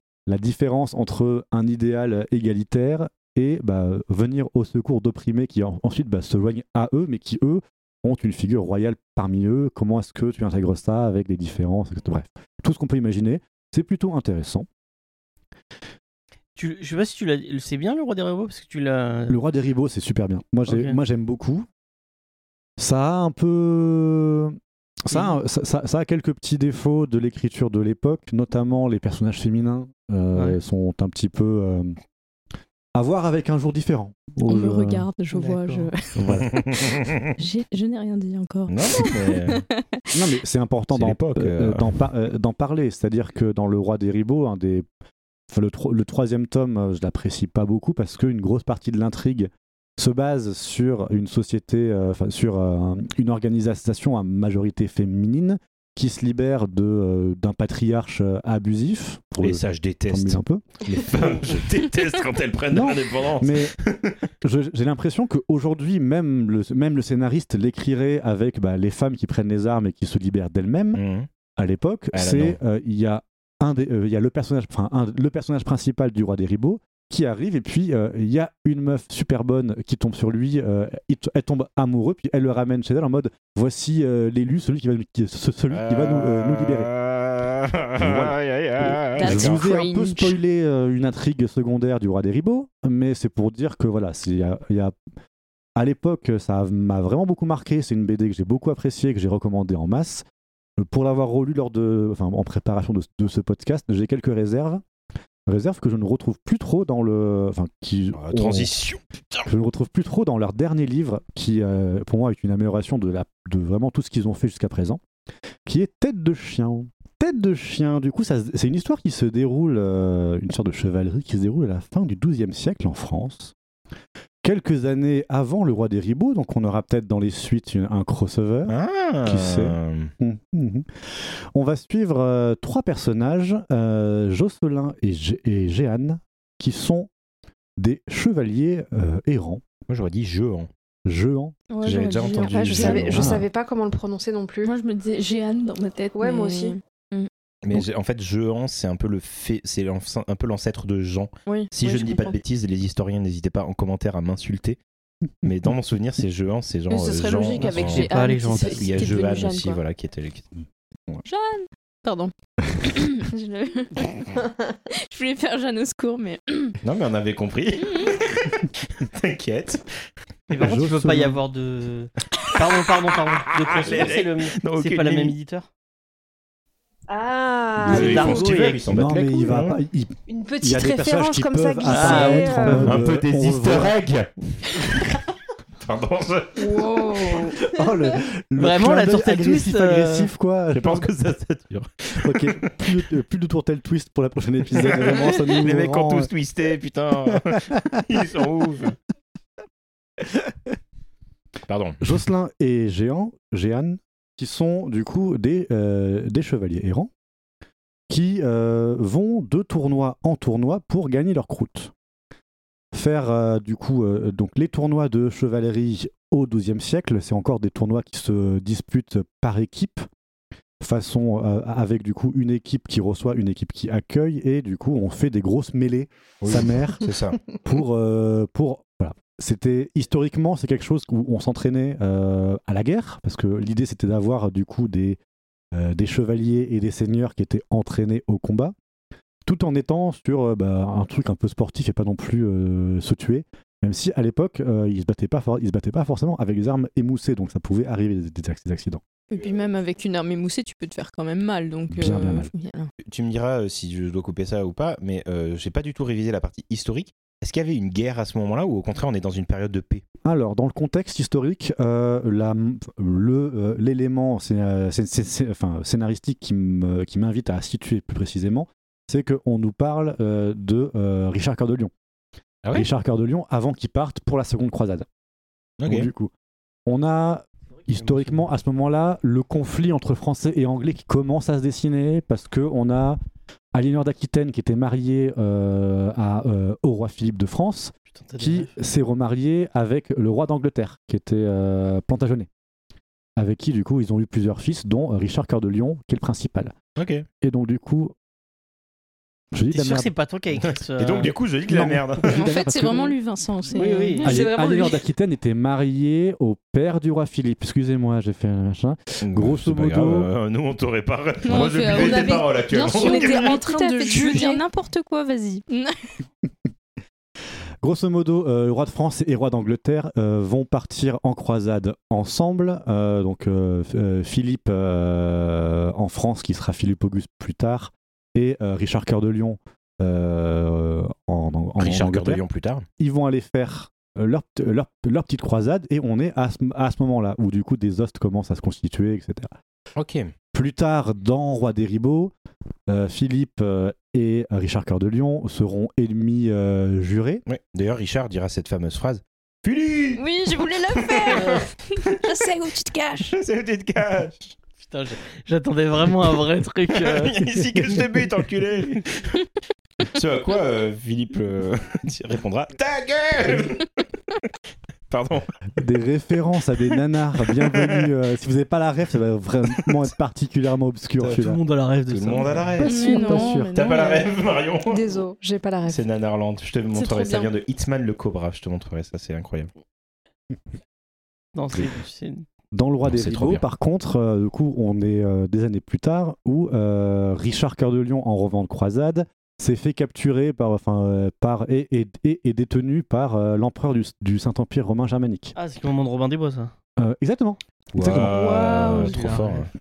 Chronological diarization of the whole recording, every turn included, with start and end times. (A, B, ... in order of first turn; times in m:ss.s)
0:00.3-0:14.7 A
0:16.6-0:19.4 B
0:19.3-0:21.7 A
0:20.7-0:21.0 B
0:22.8-0:32.0 A
0:25.1-0:25.4 B
0:32.9-0:35.1 A
0:34.4-0:40.2 C
0:35.3-0:35.9 B
0:36.2-0:36.6 A
0:36.3-0:37.3 D
0:38.7-0:39.6 D
0:40.1-0:44.9 A
0:40.9-0:42.0 D
0:45.5-1:00.6 A
0:59.4-1:04.2 D
1:02.7-1:03.7 A
1:04.4-1:11.0 A
1:10.9-1:11.3 D
1:11.6-1:26.9 A
1:12.1-1:12.6 D
1:25.7-1:29.6 D
1:28.0-1:35.0 A
1:29.1-1:30.4 C
1:35.8-1:40.3 A
1:40.8-1:44.8 A
1:45.5-1:48.7 A
1:48.1-1:49.5 D
1:49.4-1:55.0 A
1:55.6-2:03.5 A
2:04.4-2:17.1 A
2:08.7-2:10.1 D
2:17.8-2:19.6 A
2:19.9-2:20.7 D
2:21.1-2:21.6 A
2:21.7-2:23.2 C
2:21.8-2:23.4 D
2:22.5-2:24.7 E
2:22.8-2:23.5 A
2:24.6-2:27.3 C
2:26.1-2:26.8 E
2:27.6-2:34.8 D
2:31.5-2:32.4 C
2:35.4-2:38.1 D
2:36.9-2:38.7 E
2:37.0-2:39.8 C
2:37.6-2:39.0 B
2:38.6-2:40.4 D
2:41.2-2:42.3 C
2:42.8-2:46.8 C
2:46.8-2:49.9 D
2:47.8-2:48.2 C
2:50.5-2:55.7 B
2:50.6-2:51.4 A
2:53.5-2:55.4 D
2:57.1-2:58.7 E
2:57.8-2:59.8 D
2:57.9-2:58.8 B
2:58.9-3:04.0 A
3:00.3-3:03.0 E
3:01.9-3:03.0 B
3:02.8-3:05.2 D
3:05.8-3:06.8 D
3:06.6-3:07.6 E
3:06.7-3:07.6 C
3:07.6-3:11.1 A
3:08.6-3:10.3 B
3:10.7-3:13.0 D
3:12.2-3:16.3 A
3:14.8-3:19.0 D
3:17.3-3:18.0 A
3:21.7-3:22.1 D
3:22.0-3:27.1 A
3:28.1-3:31.9 A
3:32.9-3:40.1 A
3:40.8-3:47.1 A
3:46.4-3:47.4 D
3:47.6-3:55.2 A
3:55.7-3:58.8 A
3:59.4-4:09.0 A
4:09.3-4:12.9 C
4:11.9-4:12.5 A
4:13.0-4:20.0 D
4:20.2-4:31.9 A
4:32.7-4:35.1 A
4:35.8-4:36.1 D
4:35.8-4:36.3 A
4:36.9-4:43.2 A
4:38.0-4:38.4 B
4:43.7-4:52.5 A
4:48.1-4:48.8 B
4:53.4-4:56.8 A
4:57.0-4:57.3 D
4:57.4-4:58.1 A
4:59.5-5:00.1 A
4:59.7-5:01.3 B
5:00.6-5:02.5 D
5:01.7-5:03.1 A
5:02.2-5:05.0 C
5:03.7-5:04.4 B
5:04.2-5:10.3 A
5:09.2-5:13.6 D
5:11.4-5:16.0 C
5:11.8-5:14.6 E
5:17.8-5:32.4 A
5:31.8-5:32.9 D
5:33.0-5:39.5 A
5:40.0-5:40.3 D
5:40.5-5:42.3 A
5:42.9-5:47.4 A
5:47.5-5:52.2 D
5:50.2-5:53.4 C
5:53.2-5:54.6 D
5:54.8-5:57.4 B
5:56.9-5:59.4 D
5:57.8-5:58.0 A
6:00.0-6:04.0 D
6:05.1-6:05.5 D
6:05.8-6:11.6 A
6:07.4-6:08.1 D
6:11.2-6:11.5 D
6:11.2-6:12.8 B
6:12.1-6:15.0 D
6:12.8-6:13.8 A
6:12.8-6:14.3 C
6:14.9-6:16.0 E
6:15.9-6:19.7 D
6:16.9-6:17.5 C
6:21.6-6:22.4 B
6:22.7-6:35.5 A
6:23.0-6:23.6 D
6:35.6-6:36.7 B
6:37.0-6:38.6 A
6:37.9-6:39.7 D
6:38.1-6:39.2 C
6:38.9-6:39.7 B